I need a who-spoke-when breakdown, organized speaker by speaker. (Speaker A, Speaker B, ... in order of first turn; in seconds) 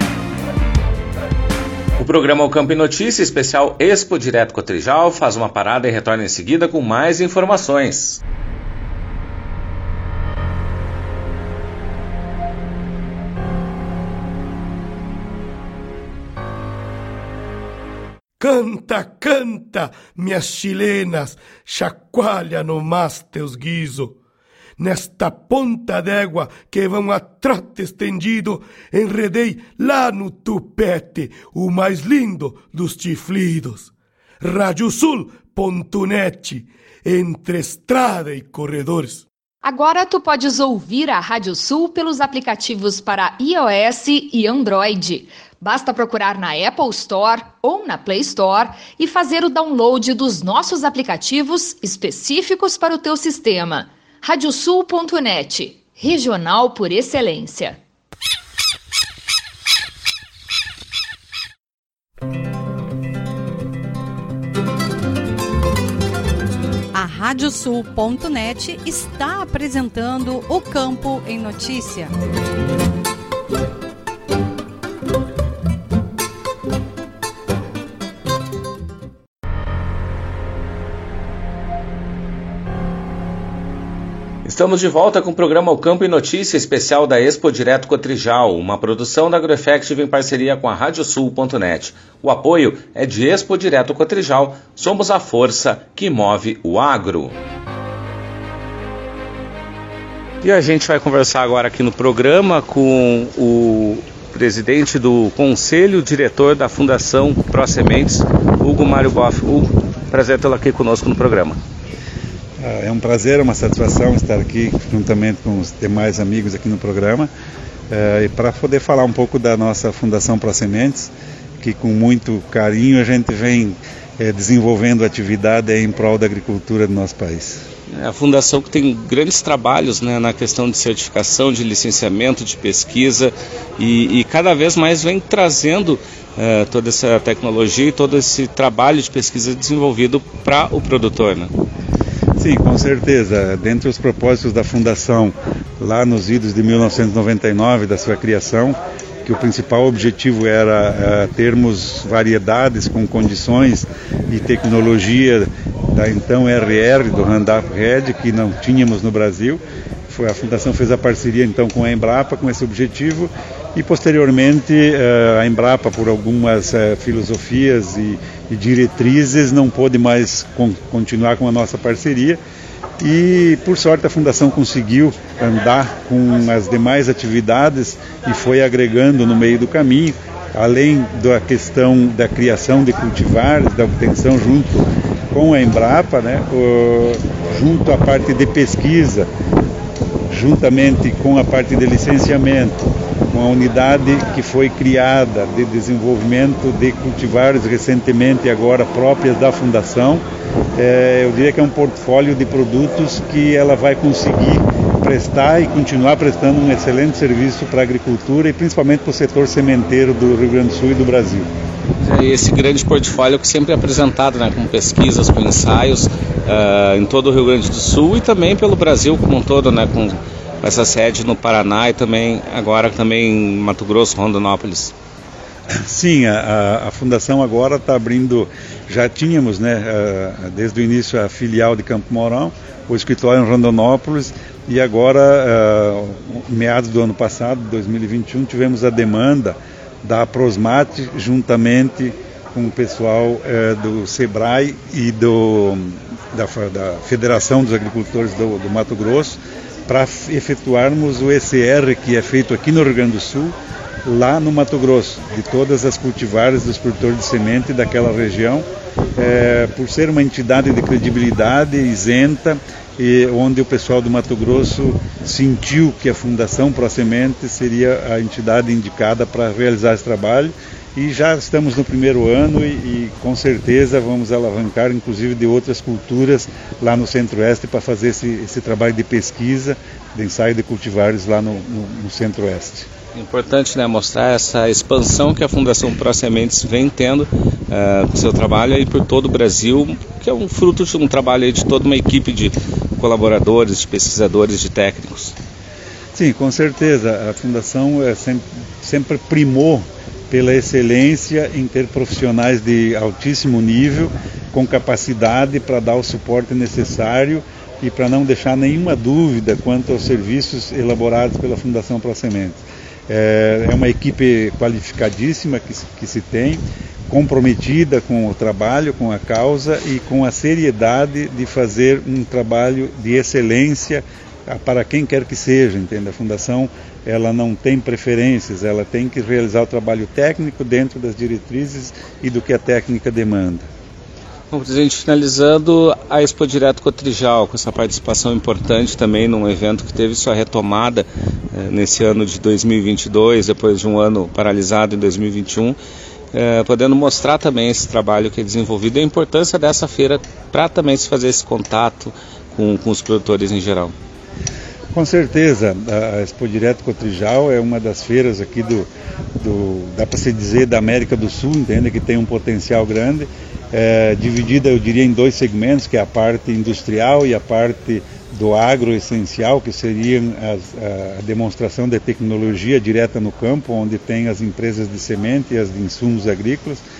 Speaker A: 2.0-8.2, 84.5-97.4, 100.4-111.6, 127.9-141.5, 212.0-224.9, 283.1-295.4, 334.5-345.8, 346.3-353.9
Speaker B: 18.4-24.1, 24.8-39.3
Speaker C: 39.6-57.8
Speaker D: 66.9-72.1
Speaker E: 112.6-117.3, 117.9-127.6, 142.4-172.4, 173.0-189.3, 190.3-200.2, 200.8-211.5, 225.8-282.9, 296.1-333.7, 354.9-376.8